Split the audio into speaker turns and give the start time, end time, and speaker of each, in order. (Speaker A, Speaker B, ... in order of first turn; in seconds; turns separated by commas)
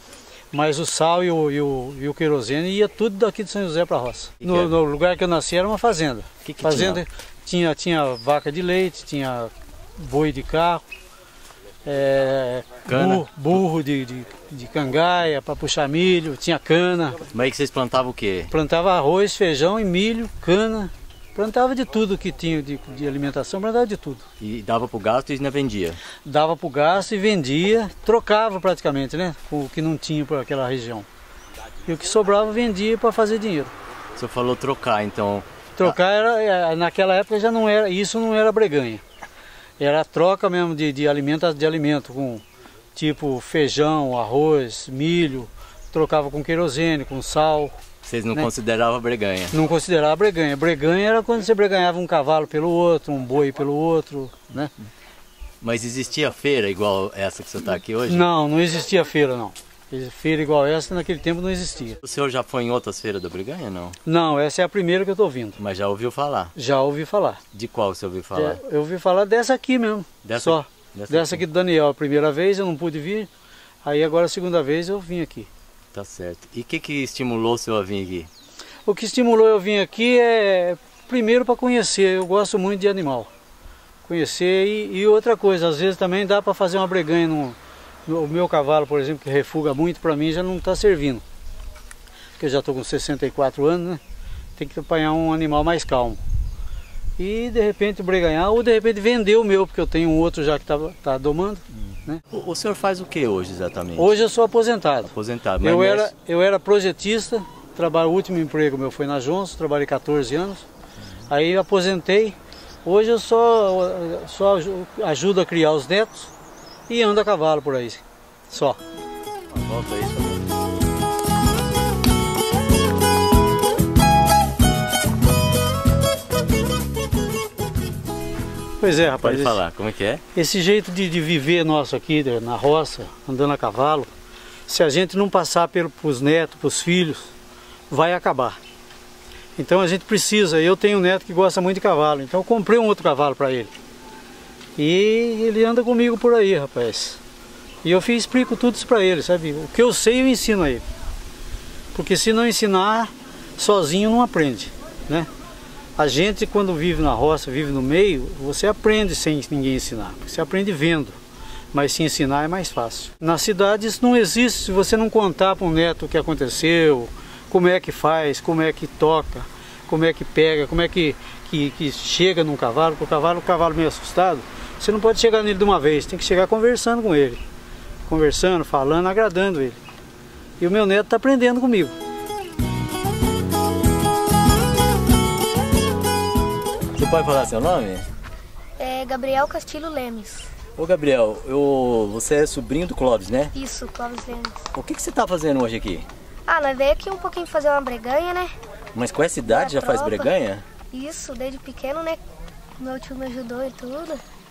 Speaker A: 0.5-10.8, Speaker B: 4.4-4.7, Speaker B: 6.4-7.0, Speaker A: 11.8-17.2, Speaker B: 12.9-13.2, Speaker B: 17.3-18.5, Speaker A: 18.5-24.2, Speaker B: 24.4-26.0, Speaker A: 26.2-31.1, Speaker A: 31.9-33.7, Speaker B: 34.1-35.9, Speaker A: 35.8-39.0, Speaker A: 39.8-42.4, Speaker A: 42.9-47.8, Speaker B: 48.0-49.5, Speaker A: 49.5-54.7, Speaker B: 55.6-58.2, Speaker A: 58.1-62.0, Speaker B: 62.0-63.9, Speaker A: 64.0-65.6, Speaker B: 65.6-66.5, Speaker A: 66.5-67.4, Speaker B: 67.5-68.6, Speaker A: 68.3-73.3, Speaker B: 70.2-71.4, Speaker A: 73.8-75.5, Speaker B: 75.9-78.3, Speaker A: 78.8-83.3, Speaker A: 84.0-91.2, Speaker A: 92.4-94.0, Speaker A: 94.6-96.2, Speaker A: 97.2-102.2, Speaker B: 102.3-104.0, Speaker A: 103.9-110.6, Speaker B: 105.1-106.0, Speaker A: 111.3-116.3, Speaker A: 116.9-118.8, Speaker B: 119.5-120.4, Speaker A: 128.8-129.6, Speaker B: 129.2-130.2, Speaker A: 130.3-134.1, Speaker A: 134.7-137.3, Speaker A: 137.9-138.6, Speaker A: 139.6-143.7, Speaker A: 144.8-147.2, Speaker A: 147.8-150.8, Speaker A: 151.9-155.3, Speaker A: 156.0-161.2, Speaker A: 161.7-177.4, Speaker A: 178.1-179.8, Speaker A: 180.6-182.0, Speaker B: 186.9-188.1, Speaker C: 188.8-190.5, Speaker B: 190.8-193.5, Speaker C: 193.5-194.6, Speaker B: 194.7-196.1, Speaker C: 196.5-198.5, Speaker B: 198.9-200.6, Speaker C: 199.5-200.3, Speaker C: 200.9-202.2, Speaker C: 202.8-204.2